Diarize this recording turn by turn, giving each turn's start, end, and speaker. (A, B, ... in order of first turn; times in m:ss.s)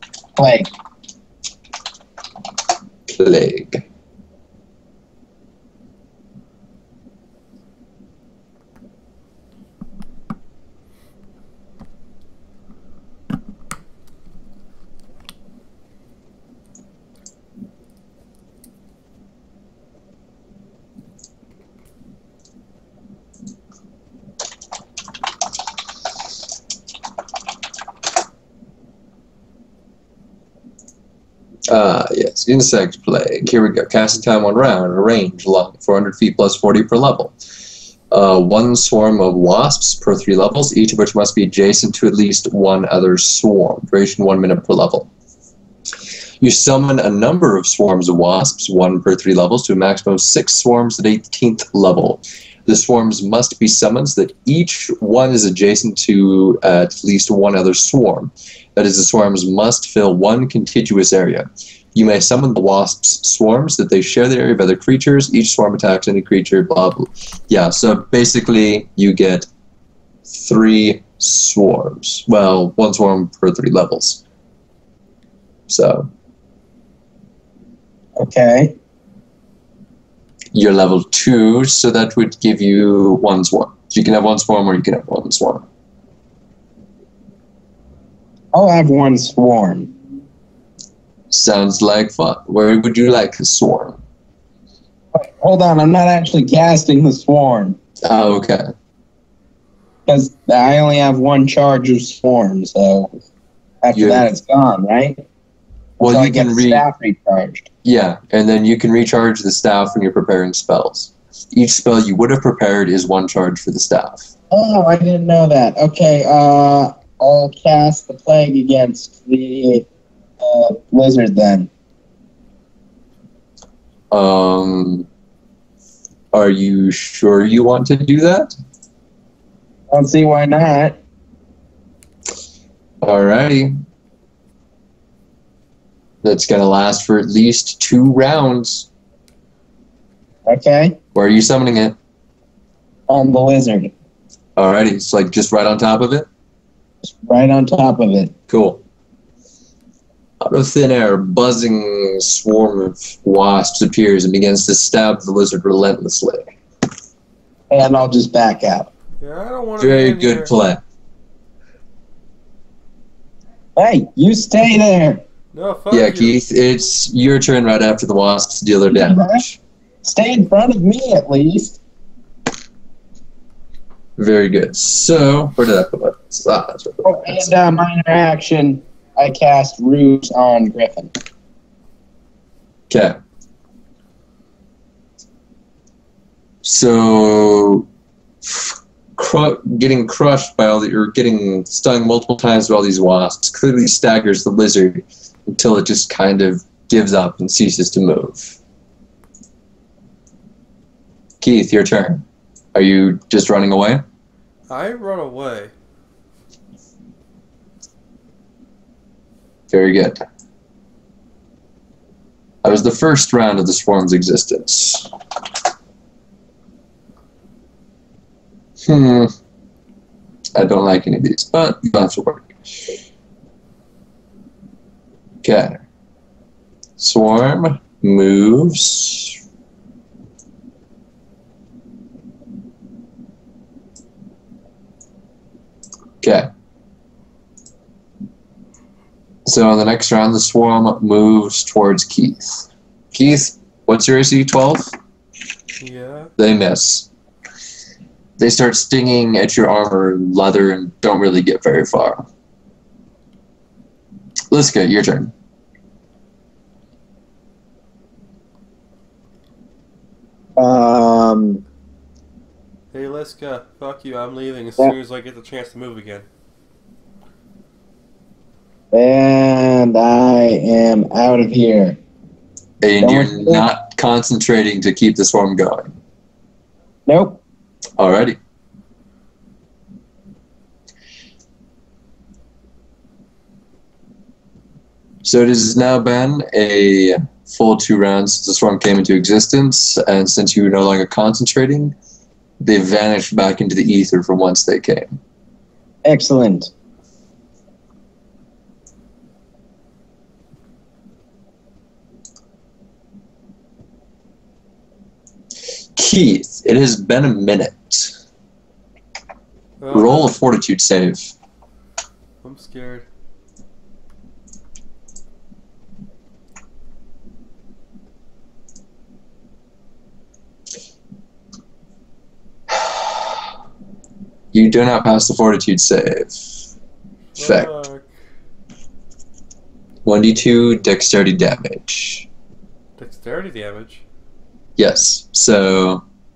0:00.4-0:00.7 A
0:03.1-0:03.8 B
0:31.7-0:37.3 B
0:38.1-0:45.1 B
0:46.4-1:09.5 B
1:10.3-1:14.2 B
1:15.7-1:16.1 B
1:18.2-1:18.8 A
1:20.5-1:25.7 B
1:28.5-1:29.9 A
1:31.3-1:34.0 B
1:35.2-1:37.8 A
1:38.0-1:38.7 B
1:40.1-1:43.1 A
1:43.8-1:45.2 A
1:43.9-1:44.3 B
1:46.0-1:46.8 B
1:46.0-1:47.7 A
1:47.8-1:54.3 B
1:54.5-1:59.8 A
2:00.4-2:01.7 A
2:04.1-2:05.1 B
2:06.3-2:08.5 B
2:09.9-2:11.0 A
2:13.0-2:13.7 B
2:16.2-2:18.9 B
2:20.5-2:21.0 A
2:21.2-2:22.0 B
2:23.1-2:23.9 A
2:24.6-2:26.3 B
2:27.0-2:28.3 A
2:28.5-2:28.8 B
2:30.4-2:36.5 B
2:37.7-2:38.9 A
2:39.2-2:40.5 C
2:39.8-2:40.8 B
2:43.8-2:45.2 A
2:45.5-2:46.4 C
2:45.9-2:49.6 B
2:48.9-2:49.4 A
2:50.0-2:51.8 A
2:54.2-2:57.6 B
2:57.0-3:01.1 A
3:02.9-3:03.2 B
3:06.6-3:07.9 B
3:08.4-3:18.6 B
3:21.4-3:22.2 B
3:22.8-3:24.0 B
3:24.7-3:25.7 C
3:29.7-3:30.2 B
3:32.6-3:35.1 B
3:38.8-3:39.3 B
3:40.6-3:42.9 B
3:45.4-3:45.8 B
3:47.0-3:49.4 B
3:56.2-3:56.5 B
3:59.5-4:04.9 B
4:05.8-4:06.3 C
4:06.4-4:07.1 B
4:08.4-4:12.3 B
4:14.5-4:15.3 B
4:20.6-4:21.6 A
4:22.9-4:26.3 C
4:28.9-4:32.0 A
4:32.8-4:36.0 B
4:33.0-4:33.7 A
4:37.1-4:37.4 A
4:38.0-4:38.4 B
4:45.2-4:52.0 B
4:52.6-4:55.2 B
4:56.0-4:56.7 A
5:06.0-5:08.2 B
5:09.8-5:10.4 C
5:09.9-5:11.3 B
5:12.4-5:13.0 C
5:24.5-5:26.6 B
5:27.4-5:28.1 C
5:27.4-5:27.7 B
5:30.0-5:32.3 B
5:33.0-5:34.0 C
5:34.8-5:36.0 B